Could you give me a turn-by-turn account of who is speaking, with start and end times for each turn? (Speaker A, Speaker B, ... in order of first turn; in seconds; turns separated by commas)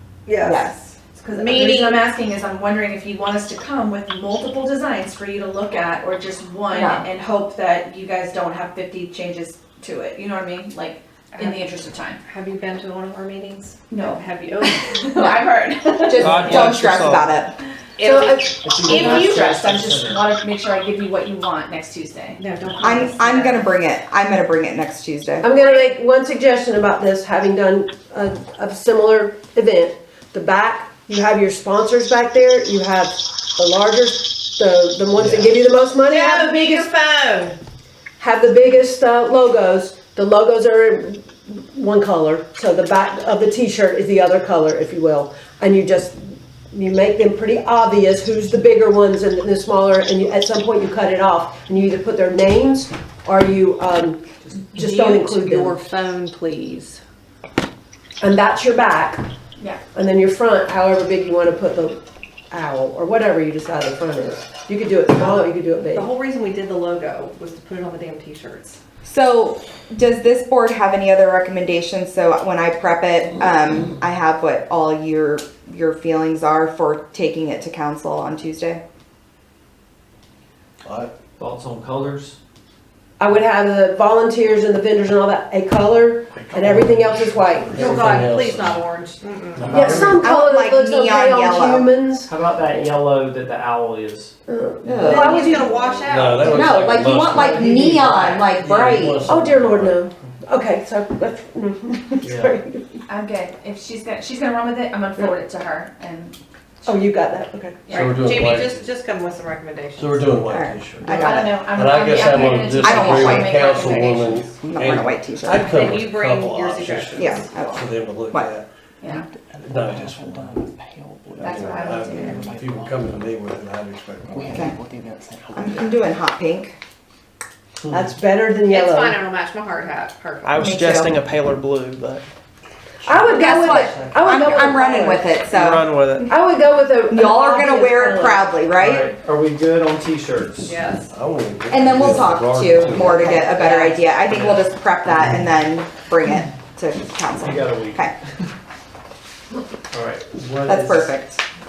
Speaker A: 0.3-0.6, Speaker B: 0.4-1.0, Speaker C: 1.1-12.2, Speaker D: 1.3-2.1, Speaker B: 6.7-7.0, Speaker D: 11.3-11.6, Speaker D: 12.2-15.3, Speaker C: 13.9-16.7, Speaker B: 15.2-15.5, Speaker B: 16.0-17.6, Speaker E: 16.2-17.3, Speaker D: 18.0-19.4, Speaker C: 18.0-22.4, Speaker F: 18.6-20.3, Speaker D: 22.4-23.6, Speaker B: 22.8-25.5, Speaker A: 25.4-36.9, Speaker F: 35.1-35.6, Speaker D: 36.0-37.6, Speaker A: 38.2-55.8, Speaker D: 54.7-57.0, Speaker A: 58.2-59.2, Speaker A: 59.9-62.0, Speaker A: 62.5-66.1, Speaker D: 65.1-68.8, Speaker B: 69.0-78.8, Speaker G: 80.8-81.1, Speaker F: 81.4-82.4, Speaker A: 83.2-87.9, Speaker F: 86.5-87.0, Speaker G: 86.7-87.0, Speaker G: 87.6-88.8, Speaker D: 87.7-90.0, Speaker F: 89.5-90.1, Speaker A: 89.7-92.3, Speaker G: 89.7-90.2, Speaker B: 90.2-91.9, Speaker F: 92.3-94.3, Speaker A: 94.5-96.1, Speaker B: 94.8-95.5, Speaker D: 95.0-96.7, Speaker G: 96.1-98.0, Speaker B: 96.5-99.3, Speaker F: 96.7-98.4, Speaker C: 97.6-98.5, Speaker G: 98.6-100.0, Speaker A: 99.3-103.0, Speaker F: 102.2-102.5, Speaker C: 103.1-106.4, Speaker A: 106.8-107.8, Speaker D: 107.9-110.3, Speaker G: 107.9-108.9, Speaker G: 110.0-118.7, Speaker B: 110.5-111.7, Speaker C: 111.1-114.5, Speaker B: 112.8-114.2, Speaker B: 114.7-115.8, Speaker D: 115.7-117.6, Speaker B: 117.2-118.5, Speaker C: 119.0-119.3, Speaker G: 119.6-120.6, Speaker E: 120.8-121.9, Speaker G: 121.4-124.7, Speaker C: 121.4-122.5, Speaker E: 124.3-125.8, Speaker B: 124.5-124.7, Speaker B: 125.5-126.8, Speaker A: 127.9-129.2, Speaker D: 128.7-130.7, Speaker E: 130.4-132.2, Speaker B: 130.6-131.1, Speaker A: 133.0-135.3, Speaker G: 133.2-133.7, Speaker B: 133.3-136.3, Speaker E: 135.5-136.3, Speaker A: 136.3-138.4, Speaker B: 137.1-139.1, Speaker F: 138.8-140.8, Speaker D: 140.6-141.1, Speaker G: 141.1-143.4, Speaker B: 141.7-148.1, Speaker F: 141.9-144.7, Speaker F: 147.4-148.1, Speaker F: 149.9-151.1, Speaker B: 150.7-151.4